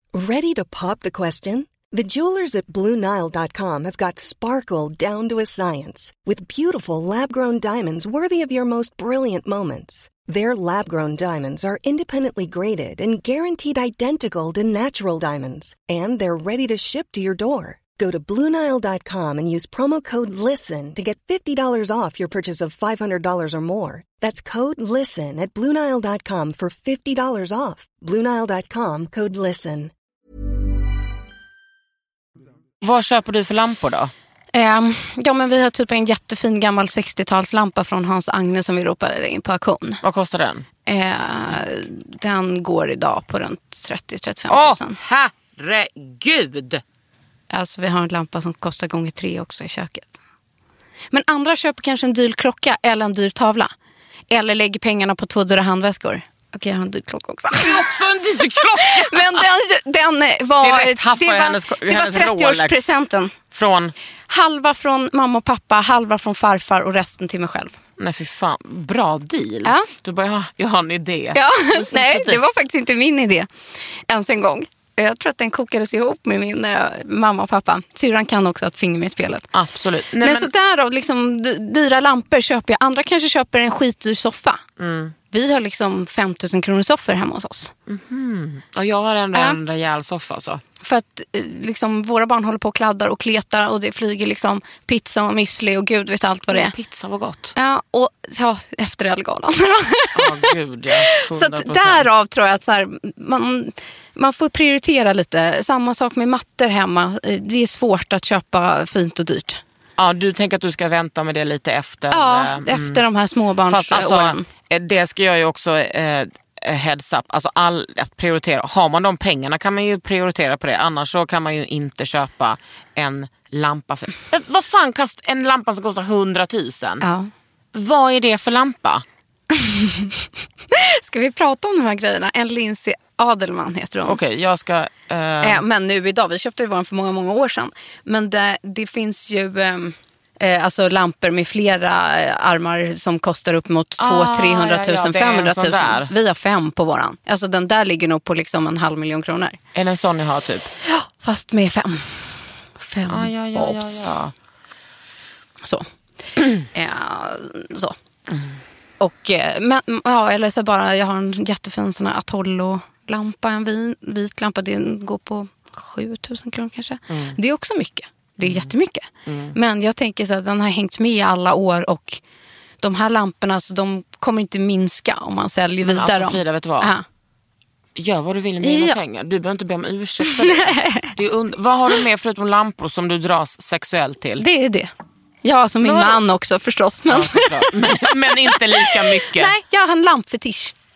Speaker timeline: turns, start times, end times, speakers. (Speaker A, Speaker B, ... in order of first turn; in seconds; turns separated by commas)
Speaker A: 0.1-29.9, Speaker B: 32.8-34.1, Speaker C: 34.5-40.0, Speaker B: 40.0-40.7, Speaker C: 40.9-45.0, Speaker B: 44.5-46.8, Speaker C: 47.5-50.2, Speaker C: 51.1-53.7, Speaker C: 54.3-57.9, Speaker B: 57.5-59.5, Speaker C: 58.5-63.4, Speaker B: 60.6-62.8, Speaker B: 63.5-63.9, Speaker C: 64.3-67.7, Speaker B: 68.0-72.6, Speaker C: 71.3-73.5, Speaker C: 74.1-79.5, Speaker B: 79.5-80.5, Speaker C: 80.2-84.6, Speaker B: 84.8-85.2, Speaker C: 85.3-87.7, Speaker B: 87.9-90.6, Speaker C: 90.8-96.8, Speaker B: 96.5-97.5, Speaker C: 97.6-109.6, Speaker B: 100.2-102.1, Speaker B: 110.0-113.0, Speaker C: 112.1-114.5, Speaker B: 113.7-127.0, Speaker C: 127.0-127.3, Speaker B: 127.7-129.0, Speaker C: 129.5-134.2, Speaker B: 134.0-135.6, Speaker C: 135.4-149.6, Speaker B: 144.0-146.1, Speaker B: 149.8-150.7, Speaker C: 150.8-154.1, Speaker B: 153.1-154.3, Speaker C: 156.6-157.9, Speaker B: 158.3-158.6, Speaker C: 159.0-172.2, Speaker B: 167.1-167.4, Speaker B: 168.4-168.7, Speaker B: 169.3-169.6, Speaker C: 172.8-177.0, Speaker B: 175.8-176.9, Speaker B: 178.0-184.4, Speaker C: 178.6-179.0, Speaker C: 180.2-181.1, Speaker C: 184.4-184.9, Speaker C: 185.4-190.7, Speaker B: 185.8-186.2, Speaker B: 187.1-189.5